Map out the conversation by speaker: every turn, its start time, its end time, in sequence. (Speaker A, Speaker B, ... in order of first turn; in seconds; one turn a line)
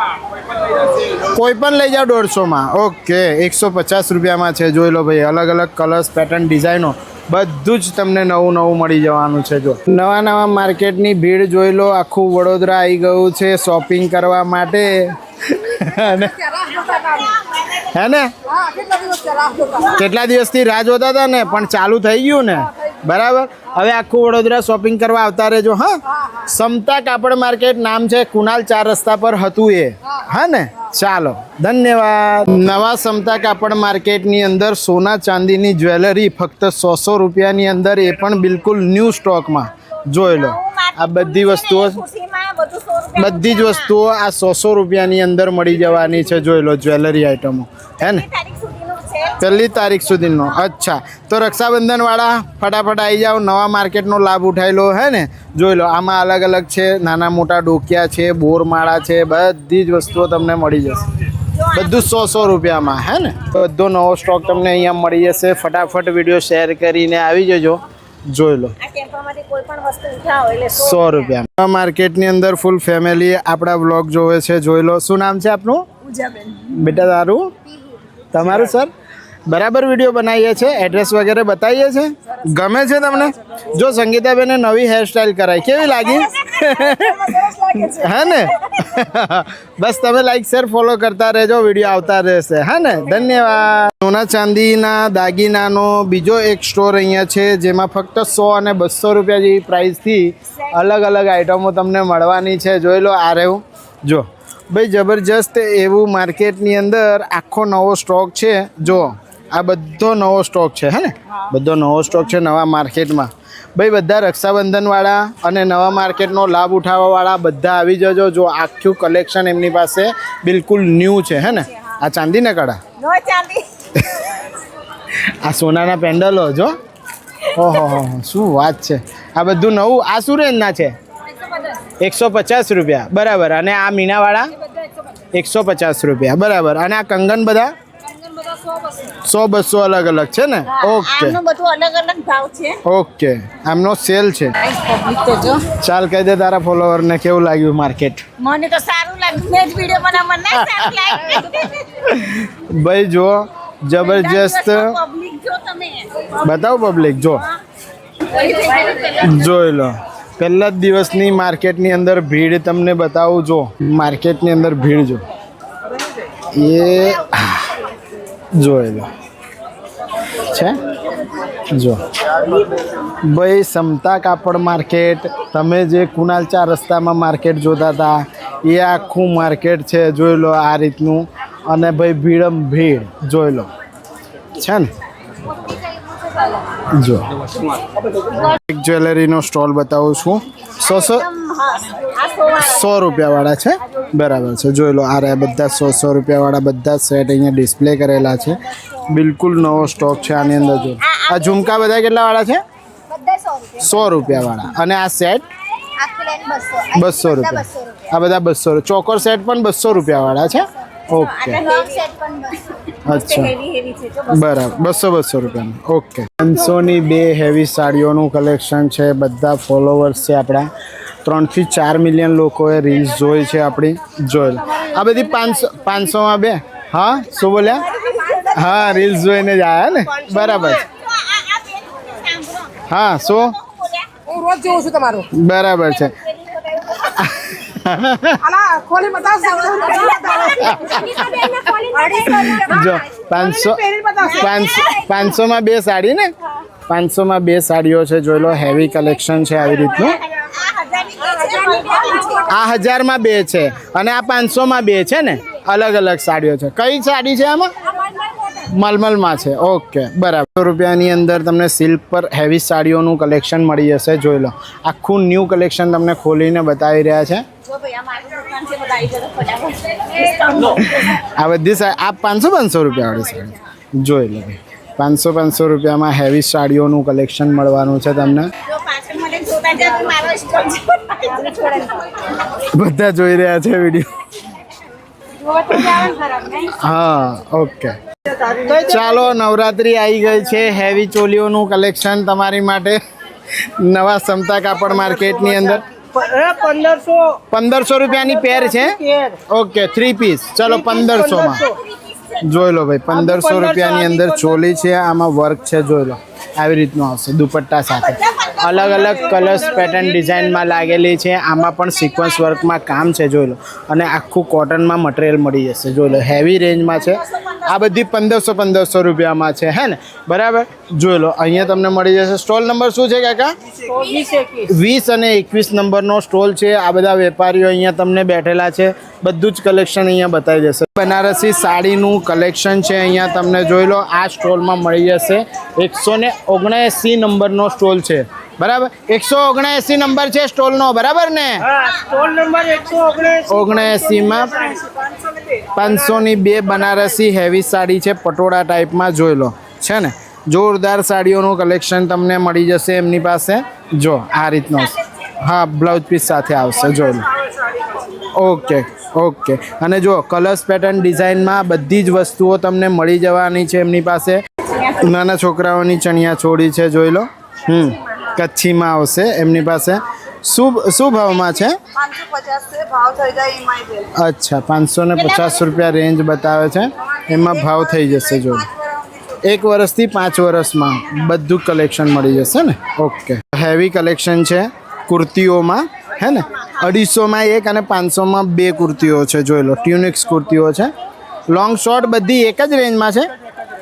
Speaker A: 1.0-16.6
Speaker B: 16.5-17.0
Speaker C: 16.7-17.8
Speaker A: 17.7-18.3
Speaker B: 18.5-19.9
Speaker C: 19.6-20.0
Speaker A: 20.0-42.0
Speaker C: 40.2-43.9
Speaker A: 43.2-48.2
Speaker C: 48.0-49.5
Speaker A: 49.4-61.1
Speaker C: 61.5-62.2
Speaker A: 61.7-68.8
Speaker C: 68.8-71.3
Speaker A: 70.7-75.9
Speaker C: 76.0-76.5
Speaker A: 76.5-77.5
Speaker A: 78.3-78.9
Speaker A: 79.5-122.8
Speaker C: 85.8-88.8
Speaker C: 123.0-123.7
Speaker A: 124.0-124.3
Speaker A: 125.4-126.8
Speaker A: 127.5-130.9
Speaker A: 132.0-134.5
Speaker A: 135.3-137.7
Speaker B: 138.4-138.9
Speaker A: 139.1-141.4
Speaker C: 140.8-142.8
Speaker A: 142.8-144.6
Speaker C: 144.9-145.6
Speaker A: 145.7-148.3
Speaker C: 148.4-151.9
Speaker A: 150.5-151.4
Speaker A: 152.0-155.0
Speaker C: 154.0-156.3
Speaker A: 156.4-157.5
Speaker C: 158.3-159.2
Speaker A: 159.2-165.2
Speaker A: 166.5-167.7
Speaker A: 168.6-169.1
Speaker A: 170.4-170.8
Speaker A: 171.7-172.6
Speaker A: 173.2-183.7
Speaker A: 184.6-184.9
Speaker A: 186.9-187.4
Speaker A: 188.2-191.3
Speaker C: 190.8-193.1
Speaker A: 192.5-202.6
Speaker C: 201.0-201.8
Speaker C: 203.1-203.7
Speaker A: 203.8-205.4
Speaker C: 206.0-206.9
Speaker A: 206.9-211.6
Speaker C: 207.6-208.0
Speaker C: 211.1-215.0
Speaker A: 213.1-213.5
Speaker A: 214.3-220.7
Speaker A: 221.2-227.9
Speaker C: 227.7-229.1
Speaker A: 228.5-230.8
Speaker C: 230.3-232.8
Speaker A: 232.9-233.6
Speaker C: 233.3-234.8
Speaker B: 234.3-235.2
Speaker A: 235.3-236.2
Speaker C: 235.9-237.3
Speaker A: 237.0-238.6
Speaker B: 238.6-240.9
Speaker C: 239.0-242.4
Speaker A: 240.6-241.5
Speaker B: 241.7-242.6
Speaker A: 242.2-246.3
Speaker B: 243.9-244.2
Speaker C: 244.1-245.2
Speaker A: 246.9-250.2
Speaker C: 250.0-252.5
Speaker A: 252.5-257.7
Speaker C: 257.9-258.5
Speaker A: 258.6-267.4
Speaker C: 267.6-271.2
Speaker A: 270.8-278.5
Speaker C: 273.1-273.6
Speaker C: 278.6-282.1
Speaker A: 282.6-284.1
Speaker C: 285.5-286.6
Speaker B: 285.6-285.9
Speaker A: 285.7-288.0
Speaker A: 288.6-293.0
Speaker A: 293.6-295.9
Speaker B: 296.0-297.4
Speaker A: 297.5-301.7
Speaker B: 298.6-299.4
Speaker B: 300.8-301.8
Speaker C: 301.7-302.4
Speaker A: 302.4-323.5
Speaker B: 303.3-304.2
Speaker C: 307.9-310.0
Speaker C: 317.0-317.9
Speaker B: 323.9-324.6
Speaker C: 324.0-324.4
Speaker A: 324.6-341.7
Speaker B: 341.7-345.7
Speaker C: 341.8-343.2
Speaker A: 343.4-344.8
Speaker A: 345.7-357.3
Speaker A: 358.2-371.8
Speaker C: 364.7-365.0
Speaker B: 372.1-373.9
Speaker A: 374.1-378.7
Speaker A: 379.4-390.9
Speaker A: 391.5-393.3